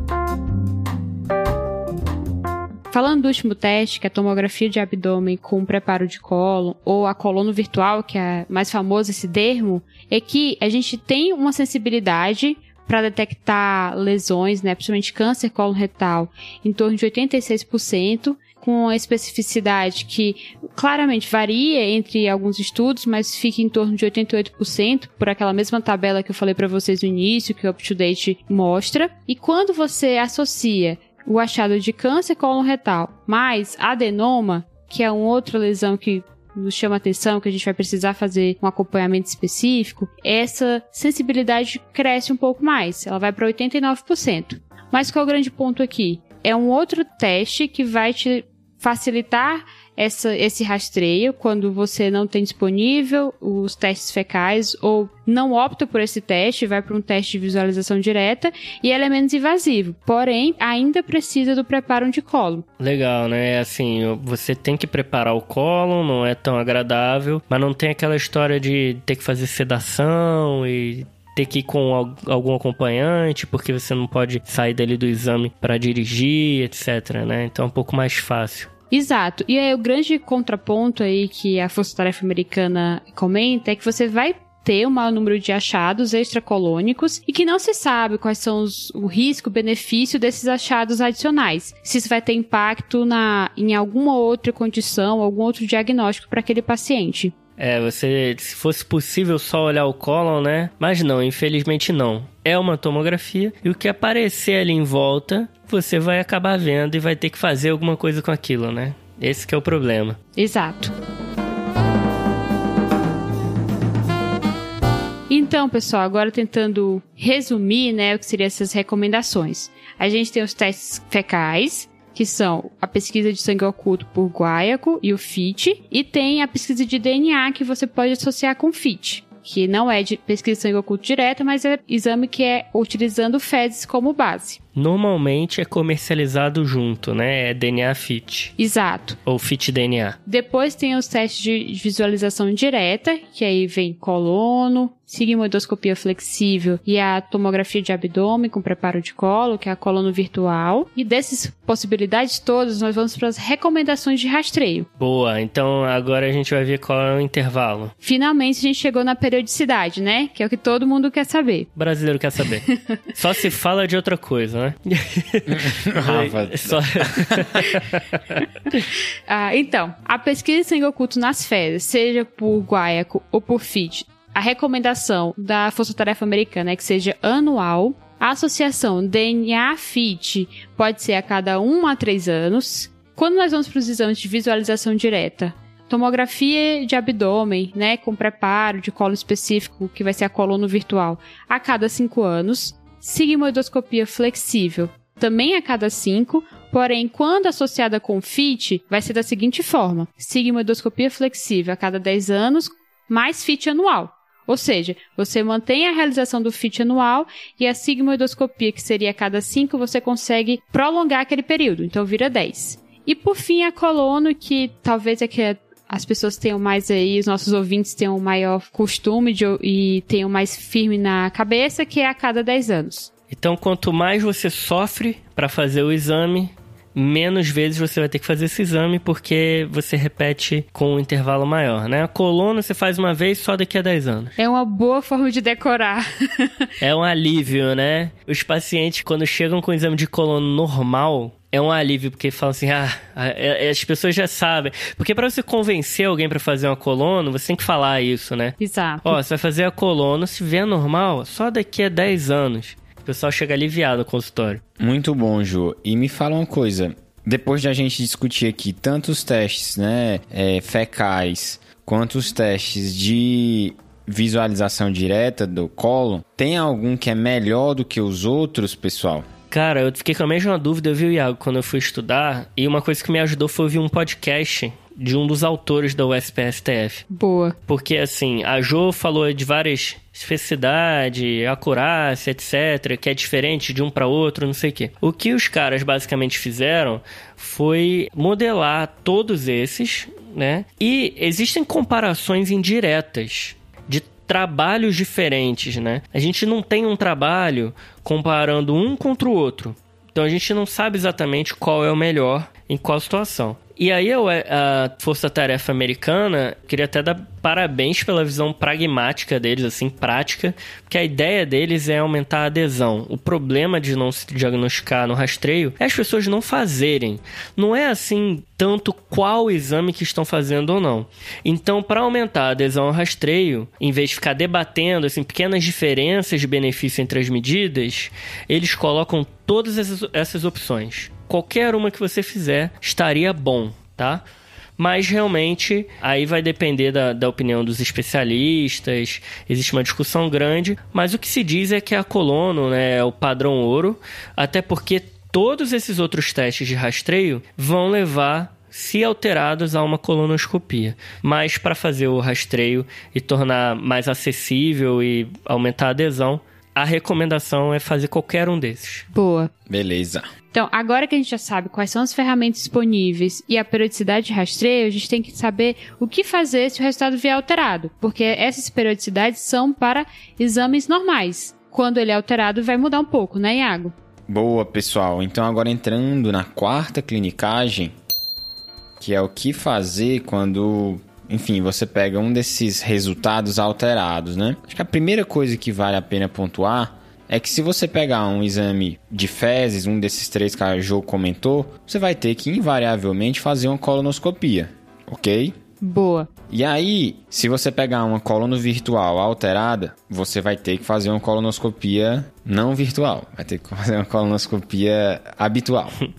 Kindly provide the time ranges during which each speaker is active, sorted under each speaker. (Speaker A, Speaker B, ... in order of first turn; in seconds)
Speaker A: 2.9-62.6, 78.9-97.3, 110.4-110.9, 115.3-134.6, 138.6-139.2, 140.3-154.9, 158.0-161.7, 169.3-223.1, 234.4-236.7, 248.6-249.2, 277.1-277.6, 359.1-359.5, 360.5-373.9, 395.8-396.3
Speaker B: 62.8-78.7, 97.6-110.2, 134.8-138.5, 139.3-140.2, 155.0-157.9, 161.8-168.4, 223.3-234.3, 236.8-254.6, 269.5-277.1, 277.7-334.2, 334.8-359.1
Speaker C: 165.5-167.7, 254.8-269.3, 359.7-360.3, 374.3-377.9, 379.0-395.6, 396.5-406.0